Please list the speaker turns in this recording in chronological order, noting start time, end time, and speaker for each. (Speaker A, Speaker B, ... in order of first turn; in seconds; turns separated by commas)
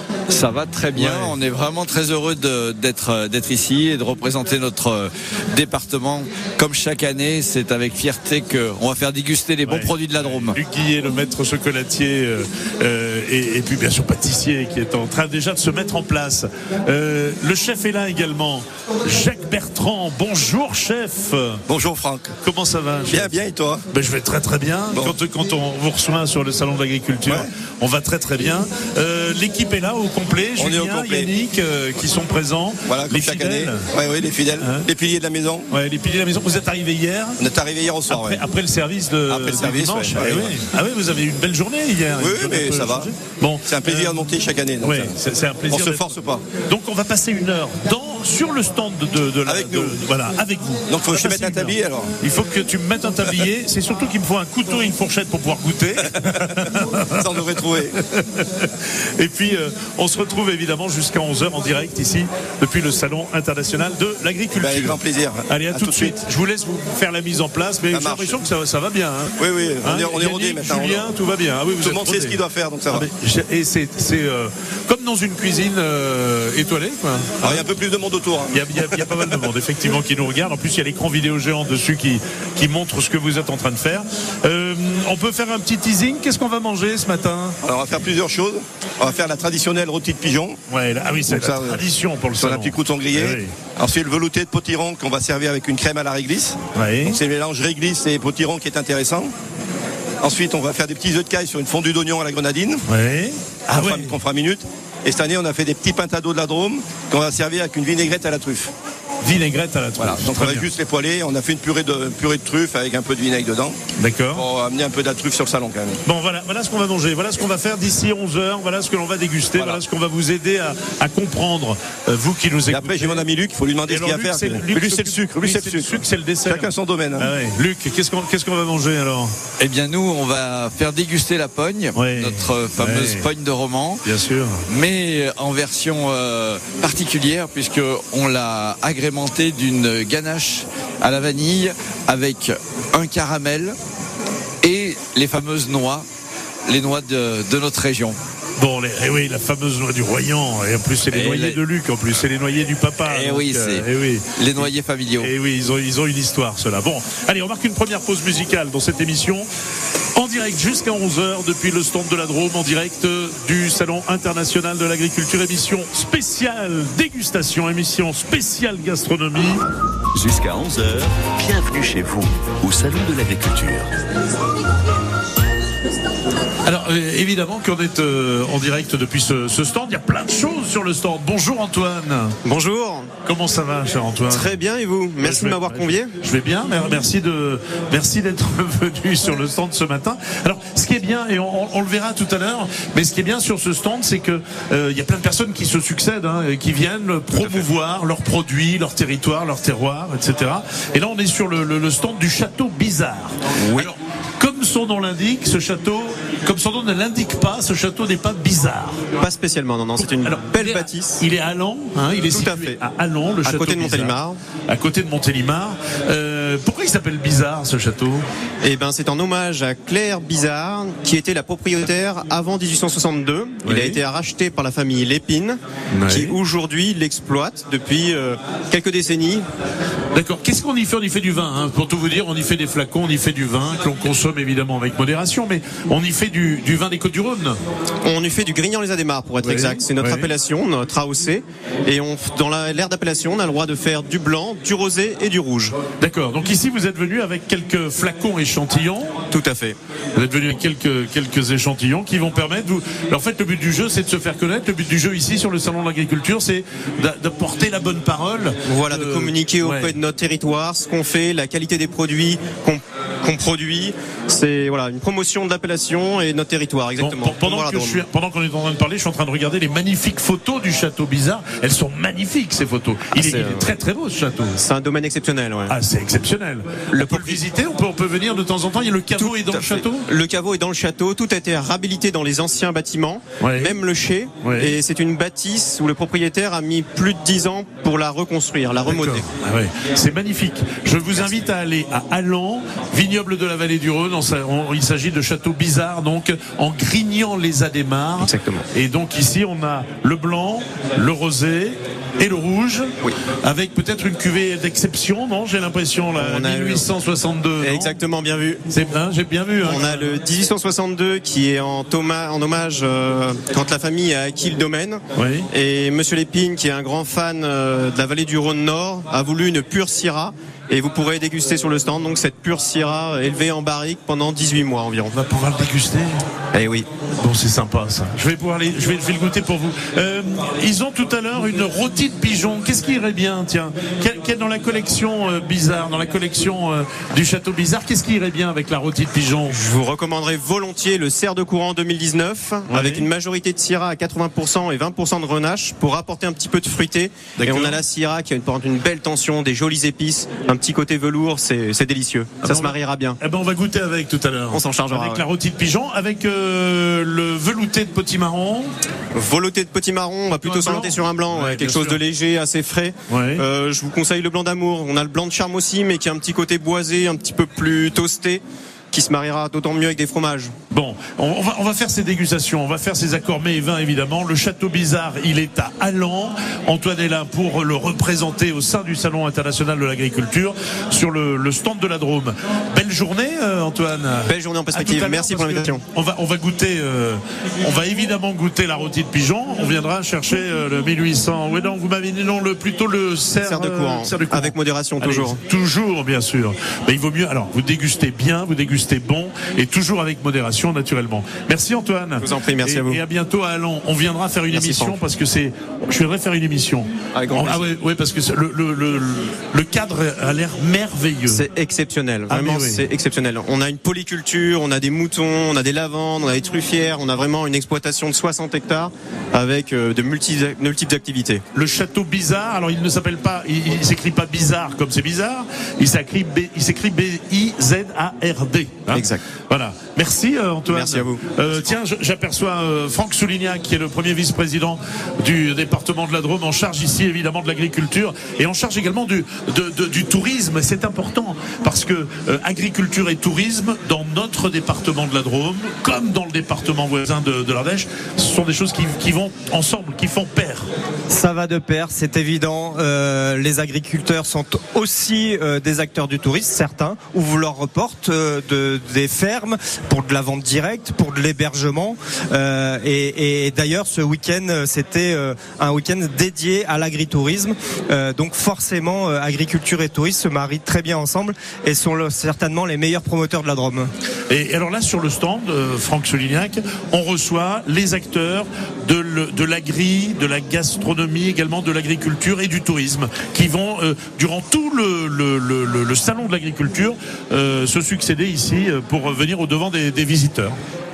Speaker A: 0.3-10.6, Speaker B: 0.9-1.4, Speaker B: 9.6-21.6, Speaker C: 21.7-22.3, Speaker B: 22.4-23.4, Speaker C: 23.1-23.8, Speaker B: 23.9-33.9, Speaker C: 30.6-31.3, Speaker C: 32.9-35.7, Speaker B: 34.6-34.9, Speaker B: 35.7-37.4, Speaker C: 37.4-38.4, Speaker B: 38.1-72.4, Speaker C: 39.3-40.6, Speaker C: 42.2-43.1, Speaker C: 43.7-45.1, Speaker C: 45.7-46.4, Speaker C: 49.5-50.0, Speaker C: 50.9-52.1, Speaker C: 57.2-58.0, Speaker C: 64.5-66.2, Speaker C: 67.9-68.4, Speaker C: 69.4-71.1, Speaker C: 71.8-73.1, Speaker B: 72.9-77.6, Speaker C: 77.4-79.5, Speaker B: 78.5-87.6, Speaker C: 87.6-90.6, Speaker B: 90.7-93.5, Speaker C: 91.3-91.8, Speaker C: 92.4-99.3, Speaker B: 96.7-97.2, Speaker C: 100.2-102.8, Speaker B: 102.9-104.2, Speaker C: 103.8-108.7, Speaker B: 109.2-110.7, Speaker C: 110.0-113.8, Speaker B: 114.0-114.4, Speaker C: 114.3-116.0, Speaker B: 116.0-123.2, Speaker C: 122.7-127.3, Speaker B: 123.9-129.3, Speaker A: 129.6-134.0, Speaker B: 131.9-133.2, Speaker B: 134.0-134.6, Speaker A: 134.7-143.8, Speaker A: 144.6-146.1, Speaker A: 146.7-148.2, Speaker B: 148.6-159.5, Speaker A: 151.1-151.6, Speaker A: 153.0-155.3, Speaker B: 160.1-169.6, Speaker D: 170.1-173.9, Speaker B: 176.6-182.4, Speaker E: 182.4-183.1, Speaker B: 183.2-184.5, Speaker E: 184.3-186.1, Speaker B: 185.2-209.0, Speaker E: 203.6-203.9, Speaker E: 209.2-211.2, Speaker B: 210.0-214.2, Speaker E: 212.3-212.8, Speaker E: 213.4-214.4, Speaker B: 214.7-218.2, Speaker E: 218.6-229.4, Speaker B: 223.6-224.0, Speaker B: 225.9-226.3, Speaker B: 230.1-237.6, Speaker E: 238.0-245.8, Speaker B: 239.4-240.3, Speaker B: 246.0-249.2, Speaker E: 249.3-249.8, Speaker B: 250.2-259.9, Speaker E: 258.6-268.0, Speaker B: 267.0-274.6, Speaker E: 273.1-273.7, Speaker E: 274.6-275.7, Speaker B: 275.7-280.1, Speaker E: 276.9-277.4, Speaker E: 279.2-289.2, Speaker B: 283.4-283.7, Speaker B: 284.4-284.7, Speaker B: 288.9-307.9, Speaker E: 298.2-298.6, Speaker E: 306.1-306.9, Speaker E: 307.6-308.6, Speaker B: 308.7-310.1, Speaker E: 309.6-315.0, Speaker B: 315.1-315.5, Speaker E: 315.5-325.1, Speaker B: 325.1-326.2, Speaker E: 326.5-326.9, Speaker B: 327.2-339.6, Speaker E: 339.5-353.2, Speaker B: 342.7-343.1, Speaker B: 347.4-347.8, Speaker B: 352.4-358.7, Speaker E: 354.5-355.2, Speaker E: 359.1-370.5, Speaker B: 360.4-362.0, Speaker B: 363.1-363.4, Speaker B: 370.7-411.4, Speaker E: 384.3-385.8, Speaker E: 393.4-395.4, Speaker E: 402.2-403.0, Speaker E: 404.5-405.0, Speaker E: 407.1-407.7, Speaker E: 411.3-421.4, Speaker B: 412.3-412.8, Speaker B: 421.5-450.7, Speaker E: 428.9-429.2, Speaker E: 430.7-431.2, Speaker F: 451.1-473.9, Speaker B: 474.3-490.6